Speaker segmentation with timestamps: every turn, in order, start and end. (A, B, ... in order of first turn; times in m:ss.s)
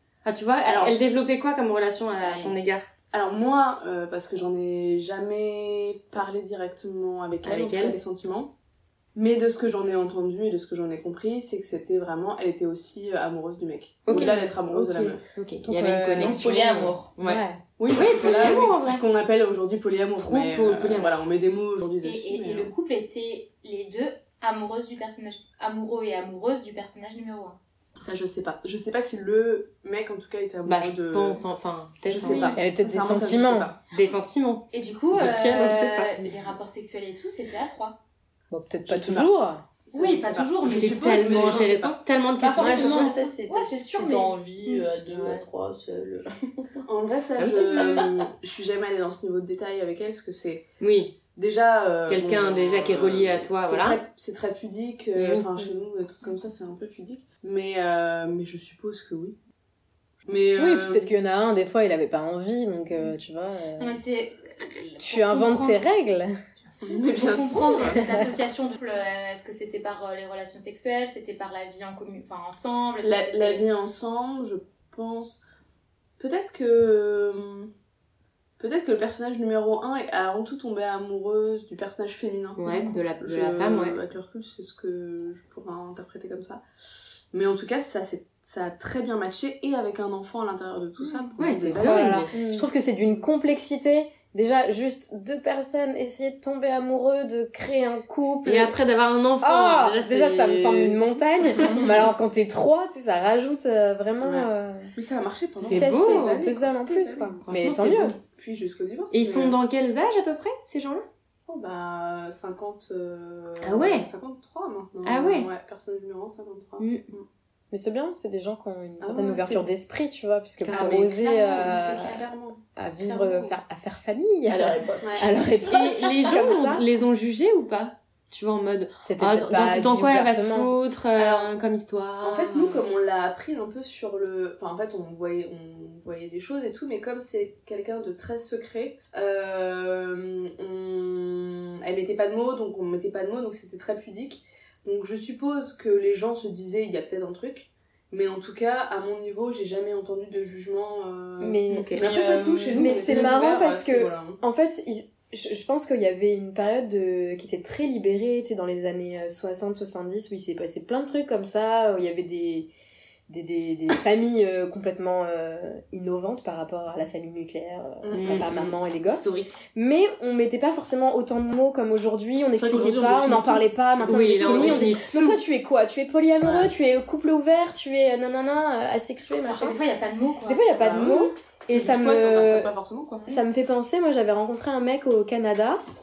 0:00.2-0:02.9 A
0:00.6-0:01.0 B
0:03.1-0:08.5 B
0:07.4-0:08.0 A
0:09.2-0:15.2 B
0:14.1-0:19.0 A
0:14.1-0:14.4 C
0:15.6-0:16.6 C
0:16.2-0:17.2 D
0:17.2-0:17.6 C
0:17.8-0:22.7 B
0:20.2-0:21.2 A
0:22.0-0:27.6 E
0:28.0-0:31.4 B
0:30.6-0:32.6 A
0:32.1-0:33.8 B
0:32.2-0:32.6 E
0:32.6-0:33.7 C
0:33.9-0:34.7 A
0:34.7-0:38.0 E
0:35.2-0:35.9 A
0:35.5-0:36.0 D
0:38.5-0:39.6 C
0:38.9-0:39.2 B
0:39.9-0:42.0 B
0:39.9-0:41.6 E
0:40.6-0:43.1 A
0:42.4-0:46.8 D
0:42.6-0:43.1 C
0:42.7-0:44.8 E
0:46.9-0:50.6 B
0:47.4-0:48.1 A
0:47.8-0:48.2 D
0:50.8-0:51.2 A
0:51.3-0:59.4 B
0:52.1-0:54.0 A
0:55.2-0:55.7 A
1:00.3-1:01.1 B
1:00.6-1:04.0 C
1:03.8-1:05.8 E
1:05.0-1:06.4 C
1:06.6-1:13.7 E
1:06.8-1:08.1 B
1:13.0-1:15.4 B
1:16.2-1:17.7 B
1:18.6-1:26.6 B
1:22.6-1:24.0 A
1:27.3-1:32.6 B
1:31.2-1:38.8 C
1:31.4-1:32.3 A
1:38.4-1:41.0 A
1:39.4-1:44.9 C
1:44.2-1:44.5 A
1:45.0-1:47.4 B
1:45.6-1:46.4 A
1:45.7-1:48.2 C
1:47.5-1:48.0 A
1:48.2-1:49.6 B
1:49.1-1:51.0 A
1:51.5-1:57.3 B
1:53.6-1:54.1 A
1:55.0-1:55.5 A
1:56.8-1:57.0 A
1:57.7-2:02.2 C
1:59.0-1:59.7 B
2:00.6-2:01.2 A
2:00.7-2:02.6 B
2:01.2-2:02.0 E
2:02.8-2:06.9 C
2:04.5-2:05.3 D
2:05.7-2:12.8 A
2:09.0-2:10.7 C
2:11.2-2:11.6 B
2:12.2-2:34.4 B
2:31.4-2:32.0 C
2:31.7-2:32.1 A
2:32.0-2:32.9 D
2:32.7-2:42.7 C
2:32.9-2:33.6 A
2:43.3-2:59.8 C
2:48.0-2:48.5 B
2:48.1-2:49.6 A
2:52.6-2:54.9 B
2:52.7-2:53.6 D
2:54.1-2:55.4 A
2:59.5-3:00.7 E
3:00.5-3:02.7 C
3:00.8-3:03.3 B
3:03.2-3:05.8 C